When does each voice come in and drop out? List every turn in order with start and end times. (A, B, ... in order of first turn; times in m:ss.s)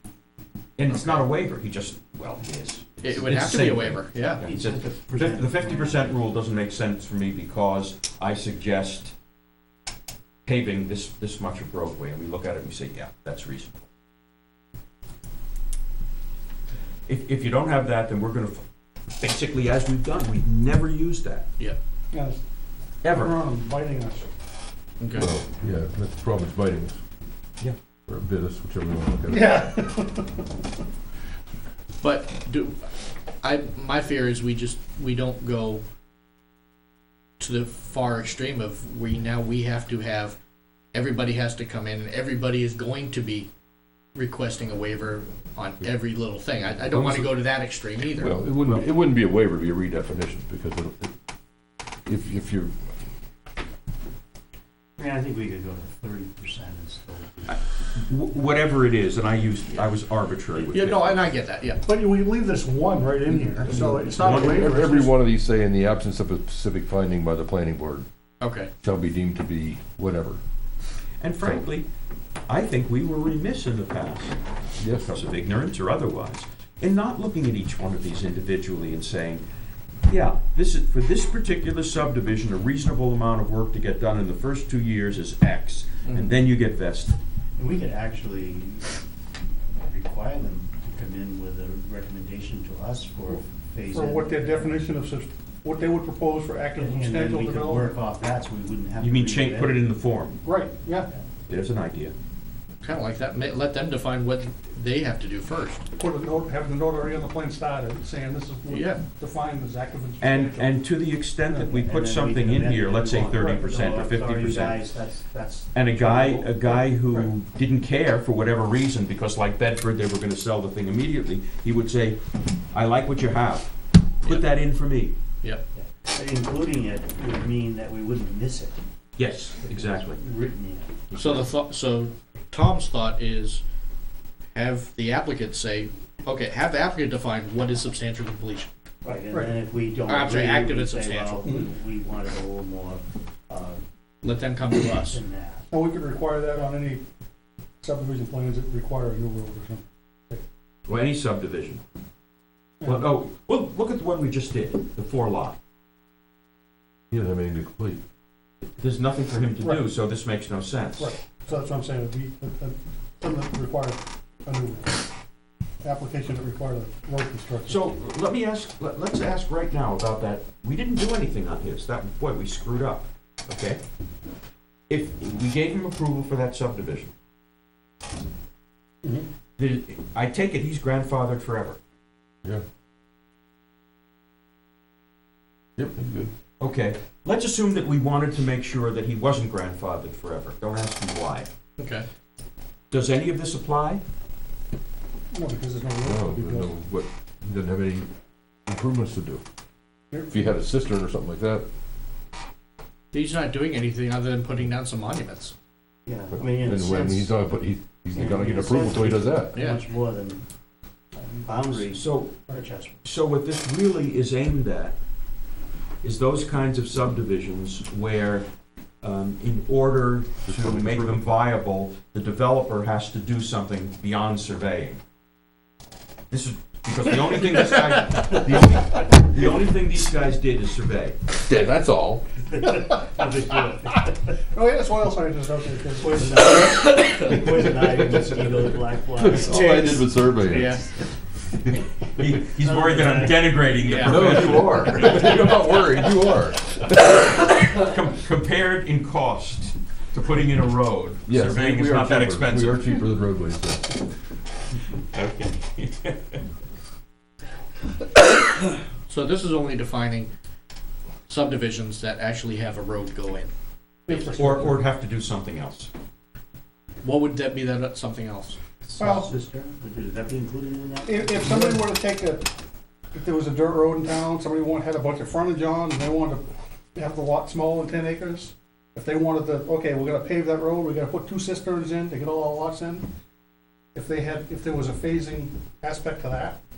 0:00.8-0:09.2 A
0:00.9-0:01.2 B
0:03.0-0:04.4 B
0:04.4-0:06.2 C
0:10.4-0:13.7 A
0:17.1-0:21.5 A
0:22.1-0:22.4 D
0:23.0-0:23.3 A
0:23.1-0:24.3 D
0:25.0-0:25.3 B
0:25.1-0:27.0 E
0:28.1-0:29.5 E
0:29.3-0:30.5 D
0:32.0-0:32.8 B
0:33.4-0:35.8 B
0:37.4-0:40.4 B
0:40.9-0:43.5 B
0:44.2-0:48.4 B
0:48.2-0:51.1 E
0:52.1-0:52.8 E
0:55.0-0:57.5 C
0:57.5-1:01.3 A
1:00.7-1:01.8 B
1:01.8-1:05.1 D
1:03.6-1:04.7 A
1:03.7-1:08.1 E
1:08.4-1:08.7 B
1:08.8-1:10.4 E
1:11.2-1:11.9 A
1:12.5-1:14.4 A
1:14.8-1:15.2 E
1:15.1-1:19.4 A
1:20.1-1:27.2 A
1:26.0-1:26.3 B
1:27.6-1:28.9 C
1:29.8-1:34.7 C
1:33.9-1:37.9 D
1:36.8-1:39.8 C
1:39.0-1:40.4 A
1:40.4-1:41.1 D
1:41.5-1:42.1 A
1:42.8-1:45.8 B
1:46.0-1:50.7 D
1:48.7-1:49.0 B
1:50.2-1:54.8 A
1:51.4-1:57.2 C
1:55.7-2:02.2 A
2:02.7-2:05.2 A
2:05.8-2:08.8 C
2:09.2-2:10.2 A
2:09.7-2:11.5 C
2:11.1-2:13.6 B
2:14.6-2:18.7 B
2:19.0-2:23.8 C
2:19.3-2:19.6 D
2:20.1-2:21.6 B
2:24.2-2:25.2 B
2:25.1-2:25.7 C
2:25.7-2:27.0 D
2:27.8-2:30.4 D
2:30.9-2:31.8 A
2:32.8-2:33.1 D
2:32.8-2:35.6 A
2:37.1-2:38.0 E
2:38.8-2:41.1 A
2:41.0-2:45.1 D
2:45.8-2:47.9 D
2:47.7-2:53.8 A
2:54.9-2:57.1 A
2:59.6-3:01.8 A
3:05.8-3:06.3 E
3:06.6-3:11.5 A
3:11.8-3:12.1 B
3:12.9-3:14.0 A
3:15.3-3:16.7 D
3:16.0-3:18.1 E
3:18.7-3:19.4 E
3:20.1-3:20.4 D
3:20.3-3:21.6 E
3:23.1-3:25.5 B
3:26.1-3:27.3 C
3:26.4-3:29.5 E
3:28.2-3:30.5 C
3:29.6-3:29.8 B
3:31.2-3:33.0 C
3:31.8-3:32.4 A
3:33.0-3:35.0 A
3:36.0-3:38.5 A
3:39.0-3:45.0 A
3:40.5-3:41.2 E
3:46.3-3:51.2 A
3:51.5-3:52.2 E
3:52.5-3:54.2 C
3:54.5-3:56.5 D
3:56.0-4:00.0 C
3:57.8-3:58.1 E
3:59.2-4:00.8 E
3:59.4-4:00.9 B
4:02.2-4:05.6 A
4:02.6-4:03.7 C
4:03.8-4:04.3 B
4:04.0-4:07.1 E
4:07.7-4:12.8 A
4:11.3-4:14.0 E
4:15.1-4:16.4 A
4:19.1-4:20.3 B
4:21.3-4:23.5 B
4:24.1-4:24.5 B
4:24.1-4:24.8 D
4:24.2-4:25.9 A
4:27.0-4:28.6 B
4:28.8-4:31.9 C
4:29.0-4:29.3 D
4:31.0-4:32.5 D
4:33.1-4:43.1 D
4:43.9-4:46.6 D